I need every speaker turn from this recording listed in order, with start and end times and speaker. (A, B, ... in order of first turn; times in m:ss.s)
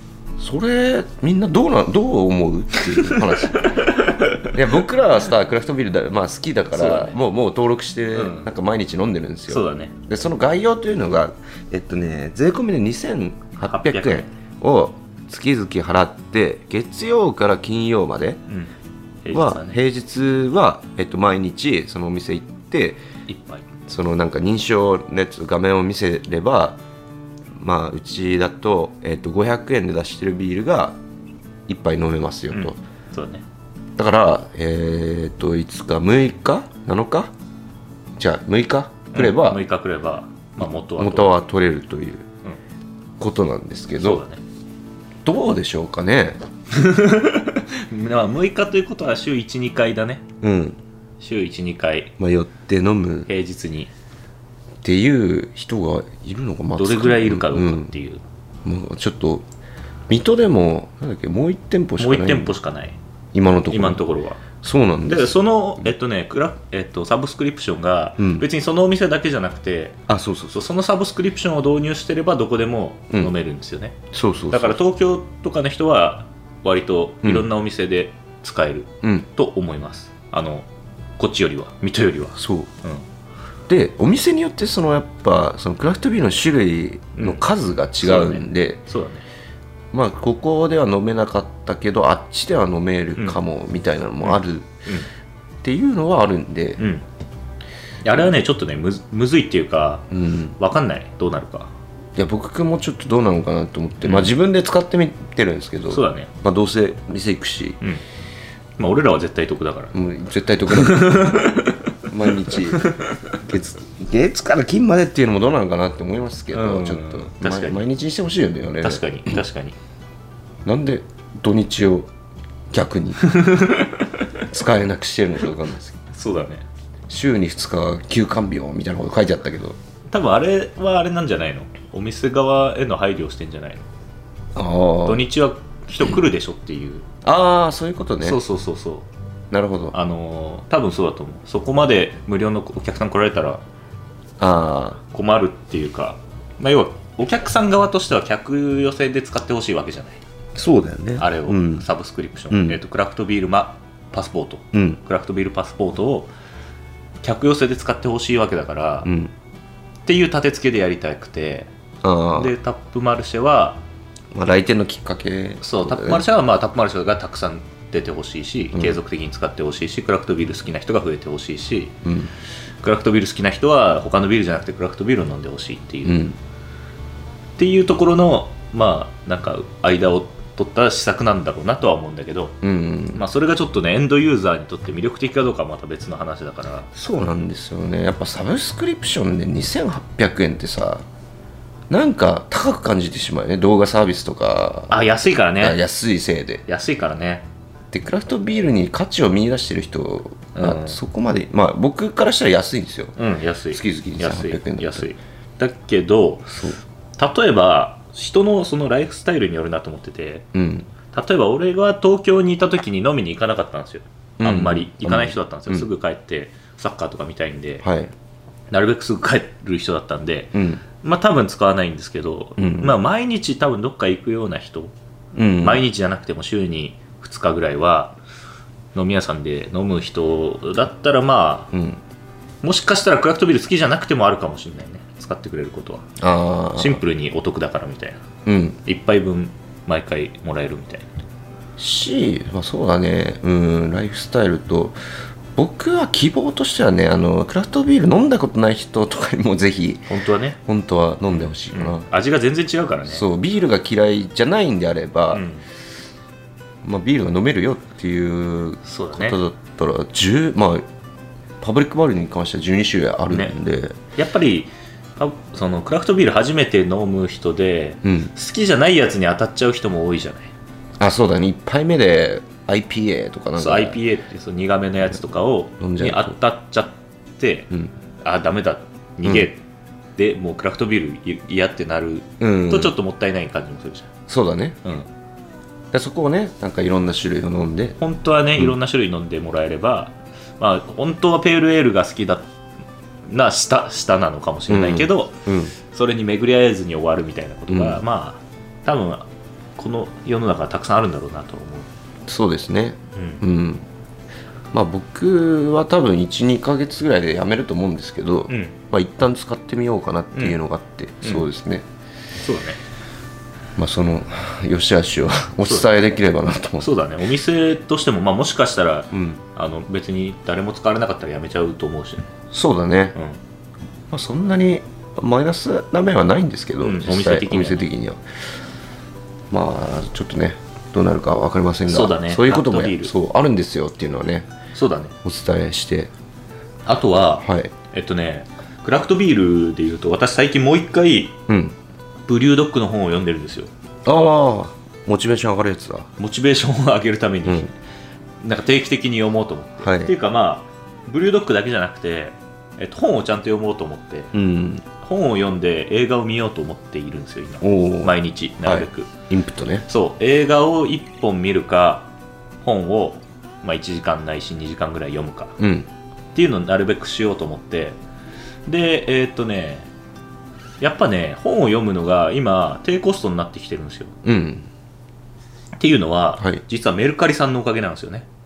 0:00.4-0:03.9 A
0:02.9-0:04.5 B
0:04.4-0:18.4 A
0:06.7-0:07.2 B
0:08.1-0:08.5 B
0:09.5-0:09.9 B
0:13.7-0:14.3 B
0:19.2-0:19.8 B
0:19.3-0:23.0 A
0:23.3-0:23.6 B
0:23.9-0:26.8 A
0:27.6-0:31.0 A
0:31.7-0:32.8 A
0:32.5-0:33.4 B
0:34.0-0:37.3 A
0:38.2-0:39.6 A
0:39.1-0:41.4 B
0:40.6-0:42.2 A
0:43.2-0:44.2 A
0:44.0-0:44.4 B
0:45.2-0:46.4 A
0:46.7-0:50.2 B
0:50.4-0:50.8 A
0:51.2-0:52.1 B
0:52.2-0:53.3 A
0:53.3-0:53.9 B
0:54.8-0:57.9 A
0:56.8-0:58.2 B
0:58.6-0:59.4 A
1:00.1-1:02.5 A
1:02.0-1:03.0 B
1:03.3-1:04.0 A
1:03.7-1:04.4 B
1:04.6-1:05.4 A
1:05.0-1:10.0 B
1:08.2-1:08.5 A
1:10.1-1:10.6 A
1:10.5-1:14.0 B
1:14.1-1:14.8 A
1:14.5-1:20.7 B
1:17.2-1:17.5 A
1:21.2-1:23.0 B
1:22.4-1:22.7 A
1:23.7-1:28.8 A
1:27.2-1:27.4 B
1:28.0-1:29.2 B
1:29.9-1:34.7 A
1:34.2-1:35.1 B
1:35.6-1:36.8 A
1:36.8-1:37.0 B
1:38.0-1:41.7 B
1:40.1-1:40.6 A
1:42.2-1:47.8 A
1:44.0-1:44.3 B
1:45.9-1:46.3 B
1:48.8-1:49.9 B
1:49.9-1:51.5 A
1:50.7-1:51.8 B
1:52.1-1:59.4 A
1:52.5-1:53.2 B
1:56.5-1:57.8 B
1:58.8-1:59.8 B
2:00.6-2:02.1 A
2:02.7-2:03.3 A
2:03.2-2:04.3 B
2:04.5-2:06.0 A
2:06.1-2:06.6 B
2:07.1-2:09.8 A
2:10.1-2:13.9 B
2:14.5-2:15.2 A
2:15.0-2:17.0 B
2:17.2-2:18.4 A
2:18.2-2:19.1 B
2:19.5-2:20.0 A
2:19.9-2:23.6 B
2:24.4-2:25.0 A
2:25.1-2:30.2 B
2:30.5-2:31.8 A
2:31.2-2:36.3 B
2:32.5-2:32.8 A
2:34.7-2:35.0 A
2:37.2-2:39.1 B
2:39.0-2:39.3 A
2:40.0-2:41.7 B
2:42.0-2:42.5 A
2:42.3-2:43.8 B
2:44.3-2:46.2 A
2:45.6-2:51.9 B
2:48.7-2:49.0 A
2:52.0-2:52.3 A
2:52.8-2:56.3 B
2:56.0-2:56.4 A
2:57.6-3:02.6 B
3:02.6-3:03.2 A
3:03.1-3:06.9 B
3:06.9-3:11.0 A
3:11.9-3:15.0 A
3:14.9-3:15.8 B
3:15.6-3:16.6 A
3:16.7-3:17.4 B
3:17.9-3:23.2 A
3:20.5-3:21.0 B
3:23.2-3:26.5 B
3:23.7-3:25.1 A
3:26.5-3:26.8 A
3:27.2-3:30.5 B
3:30.5-3:30.9 A
3:31.1-3:37.8 B
3:34.4-3:35.9 A
3:37.8-3:38.1 A
3:38.7-3:44.9 B
3:40.5-3:40.8 A
3:42.6-3:43.0 A
3:45.3-3:45.8 A
3:45.6-3:48.2 B
3:48.9-3:51.7 B
3:51.7-3:52.0 A
3:52.6-3:56.0 B
3:56.2-3:57.0 A
3:56.8-3:58.2 B
3:58.4-3:58.8 A
3:58.8-4:01.1 B
4:01.8-4:05.0 A
4:05.6-4:10.1 A
4:10.1-4:10.6 B
4:10.6-4:12.0 A
4:11.3-4:13.2 B
4:13.1-4:15.4 A
4:15.3-4:15.6 B
4:16.8-4:20.8 A
4:18.8-4:19.4 B
4:21.6-4:24.0 A
4:23.3-4:23.6 B
4:24.2-4:30.5 B
4:28.0-4:28.3 A
4:31.0-4:34.0 A
4:33.6-4:37.7 B
4:35.8-4:36.4 A
4:38.2-4:39.6 B
4:39.2-4:39.5 A
4:40.2-4:44.1 B
4:42.4-4:42.9 A
4:44.3-4:44.8 A
4:45.9-4:48.0 A
4:48.0-4:52.5 B
4:53.3-4:55.3 B
4:54.7-4:55.7 A
4:55.9-5:01.9 B
4:57.7-4:58.0 A
5:02.3-5:03.8 A
5:03.1-5:03.4 B
5:04.7-5:11.8 A
5:08.5-5:08.7 B
5:12.4-5:12.8 B
5:13.8-5:16.9 A
5:16.8-5:22.3 B
5:19.1-5:19.4 A
5:22.5-5:23.2 A
5:24.1-5:28.2 A
5:26.8-5:27.9 B
5:29.5-5:34.5 A
5:31.9-5:33.1 B
5:34.7-5:35.1 B
5:35.2-5:36.1 A
5:36.8-5:41.4 B
5:37.4-5:37.7 A
5:41.5-5:41.7 A
5:42.3-5:43.7 B
5:44.0-5:46.1 A
5:46.2-5:47.7 B
5:47.4-5:47.7 A
5:48.4-5:54.3 B
5:49.8-5:50.1 A
5:54.3-5:54.8 A
5:55.0-5:59.1 B
5:57.6-5:59.8 A
5:59.9-6:02.1 B
6:02.6-6:05.6 B
6:05.6-6:05.9 A
6:06.3-6:08.0 B
6:08.7-6:09.9 B
6:10.8-6:14.1 B
6:14.2-6:14.7 A
6:15.8-6:18.2 B